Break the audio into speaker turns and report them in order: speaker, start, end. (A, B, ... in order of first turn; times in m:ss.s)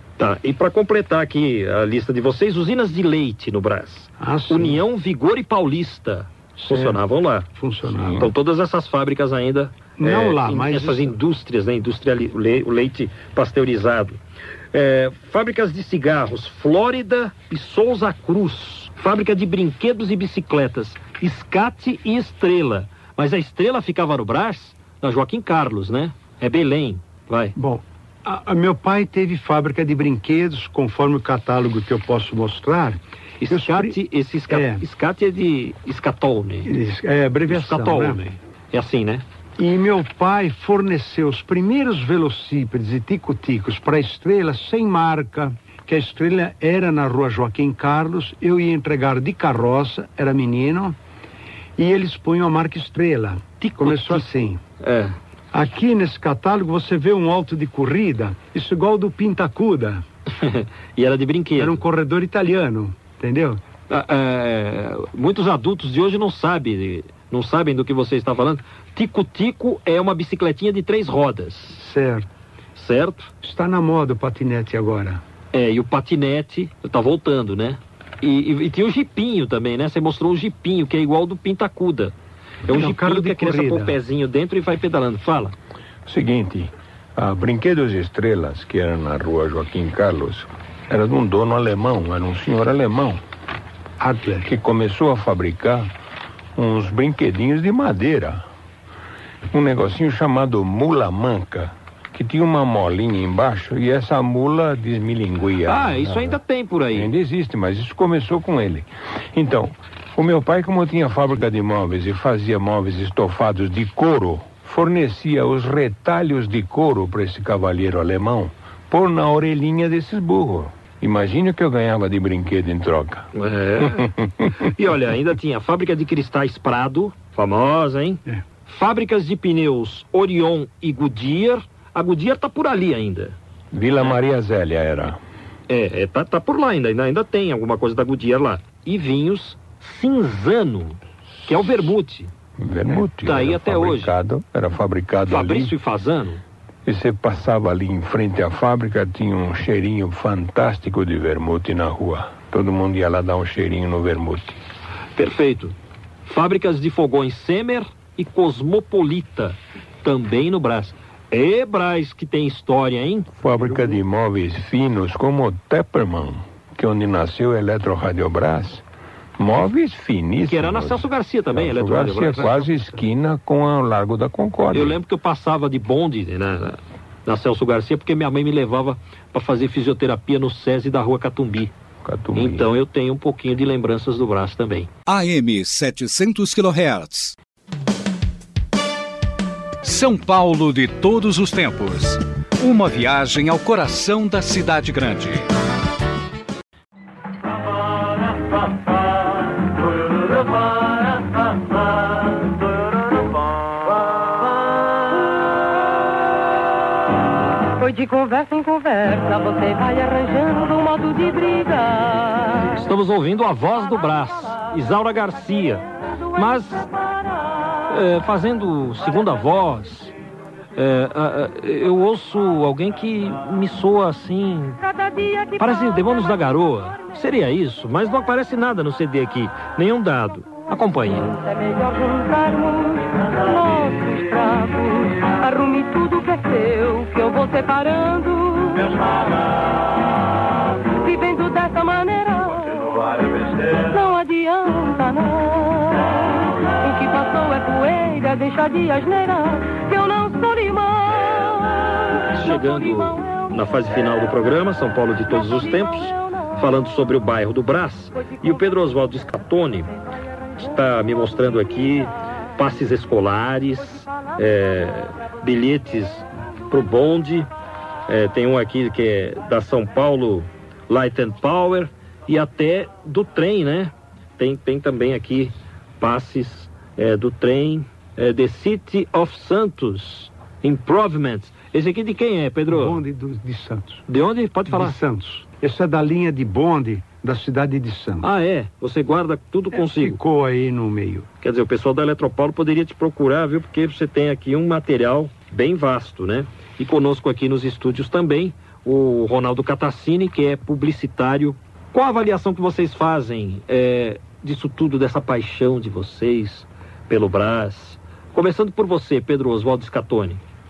0:00.2-0:07.5 A
0:04.2-0:04.8 B
0:06.7-0:07.0 B
0:07.5-0:08.3 B
0:08.1-0:14.2 A
0:10.0-0:11.2 B
0:14.7-0:27.6 A
0:27.6-0:34.0 B
0:33.4-0:36.7 A
0:34.5-0:34.8 B
0:36.7-0:38.2 B
0:37.5-0:39.2 A
0:39.6-0:51.0 B
0:51.8-0:54.6 B
0:53.6-0:54.3 A
0:54.8-0:55.2 A
0:55.5-1:00.0 B
1:00.4-1:01.8 A
1:01.6-1:03.6 B
1:03.9-1:11.8 A
1:11.7-1:12.3 B
1:12.8-1:13.3 A
1:13.4-1:15.2 B
1:15.5-1:22.1 A
1:22.7-1:25.6 A
1:22.7-1:24.0 B
1:26.1-1:33.2 C
1:34.0-1:34.5 B
1:34.4-1:35.9 C
1:36.6-1:38.4 C
1:39.5-1:46.4 C
1:45.6-1:47.1 A
1:46.9-2:04.5 C
2:03.3-2:13.4 A
2:13.7-2:15.2 C
2:15.7-2:22.3 A
2:22.6-2:25.8 C
2:23.1-2:24.1 A
2:25.3-2:26.4 A
2:26.9-2:34.6 C
2:35.2-2:43.3 A
2:43.4-2:48.8 C
2:49.4-2:55.0 C
2:50.4-2:52.7 A
2:54.7-3:01.7 A
3:02.0-3:02.7 C
3:02.3-3:04.9 A
3:05.1-3:07.4 D
3:09.8-3:15.5 D
3:27.8-3:32.7 E
3:32.8-3:36.9 A
3:37.9-3:40.1 A
3:40.8-3:44.8 A
3:44.8-3:46.0 E
3:45.6-3:51.3 A
3:51.3-3:59.1 E
4:01.0-4:12.2 E
4:12.3-4:19.9 A
4:20.6-4:27.5 A
4:28.1-4:43.0 A
4:42.7-4:44.0 B
4:44.1-4:45.0 A
4:44.7-4:48.3 B
4:48.2-4:50.2 A
4:49.7-4:51.3 B
4:51.4-5:10.4 A